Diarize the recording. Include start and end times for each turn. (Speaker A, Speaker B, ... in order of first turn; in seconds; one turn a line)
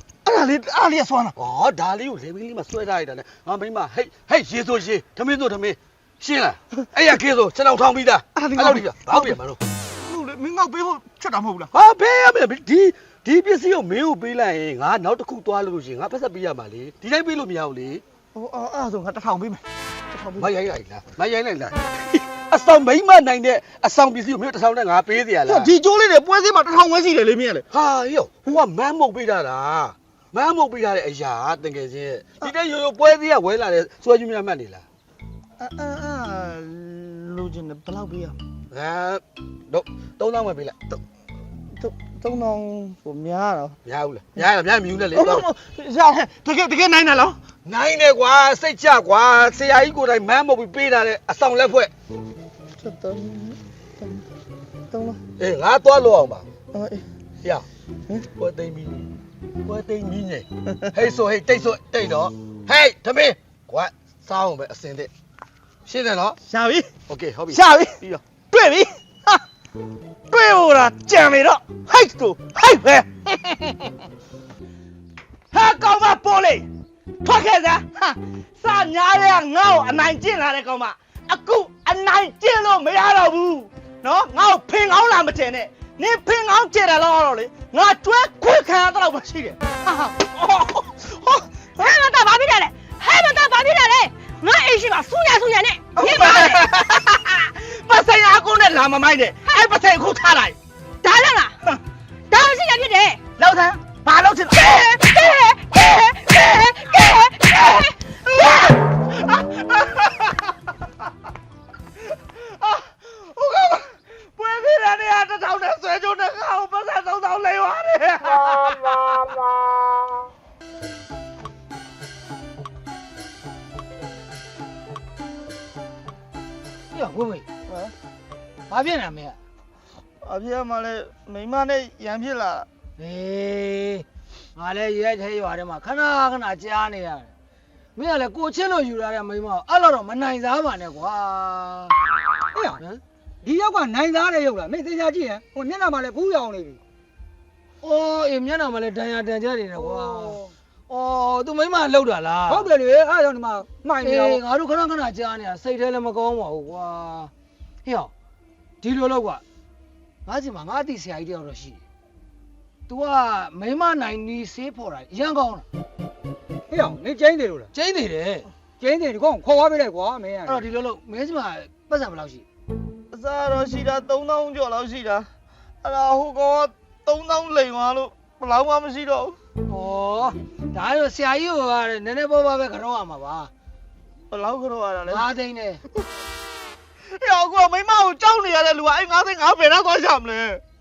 Speaker A: 0.2-1.4
Speaker B: 1.4-9.6
Speaker A: 8.4-9.4
Speaker A: 10.0-11.7
Speaker B: 11.7-18.0
Speaker A: 18.4-20.5
Speaker B: 20.4-25.7
Speaker A: 25.5-27.7
Speaker B: 27.7-34.8
Speaker A: 35.6-38.4
Speaker B: 38.7-41.0
Speaker A: 41.7-43.8
Speaker B: 43.9-45.5
Speaker A: 45.1-47.4
Speaker B: 47.6-51.9
Speaker A: 52.8-54.2
Speaker A: 54.9-55.2
Speaker B: 55.4-56.5
Speaker A: 56.7-57.0
Speaker B: 58.4-59.1
Speaker B: 59.6-65.1
Speaker B: 65.9-66.4
Speaker A: 66.5-66.9
Speaker B: 67.1-68.2
Speaker A: 67.5-68.0
Speaker A: 68.5-69.4
Speaker A: 70.3-74.0
Speaker A: 75.5-76.7
Speaker A: 77.2-91.9
Speaker C: 91.8-96.7
Speaker A: 96.0-100.6
Speaker C: 101.0-101.5
Speaker C: 102.3-103.2
Speaker A: 103.4-105.0
Speaker C: 104.6-107.9
Speaker A: 106.9-110.4
Speaker A: 112.4-119.4
Speaker D: 126.9-127.5
Speaker A: 127.7-127.9
Speaker D: 128.7-129.4
Speaker A: 130.2-132.7
Speaker D: 133.0-137.3
Speaker D: 138.0-141.9
Speaker E: 142.5-142.8
Speaker E: 143.4-146.8
Speaker D: 147.8-152.7
Speaker E: 149.8-150.5
Speaker E: 152.5-154.4
Speaker D: 154.0-157.3
Speaker D: 157.8-158.1
Speaker D: 158.8-159.4
Speaker D: 160.3-161.8
Speaker D: 162.9-165.7
Speaker E: 166.7-167.7
Speaker D: 167.7-168.5
Speaker E: 168.8-170.6
Speaker D: 170.4-172.4
Speaker A: 173.1-175.3
Speaker A: 175.8-179.4
Speaker D: 179.7-183.5
Speaker A: 184.3-185.3
Speaker D: 185.1-185.8
Speaker A: 187.2-190.6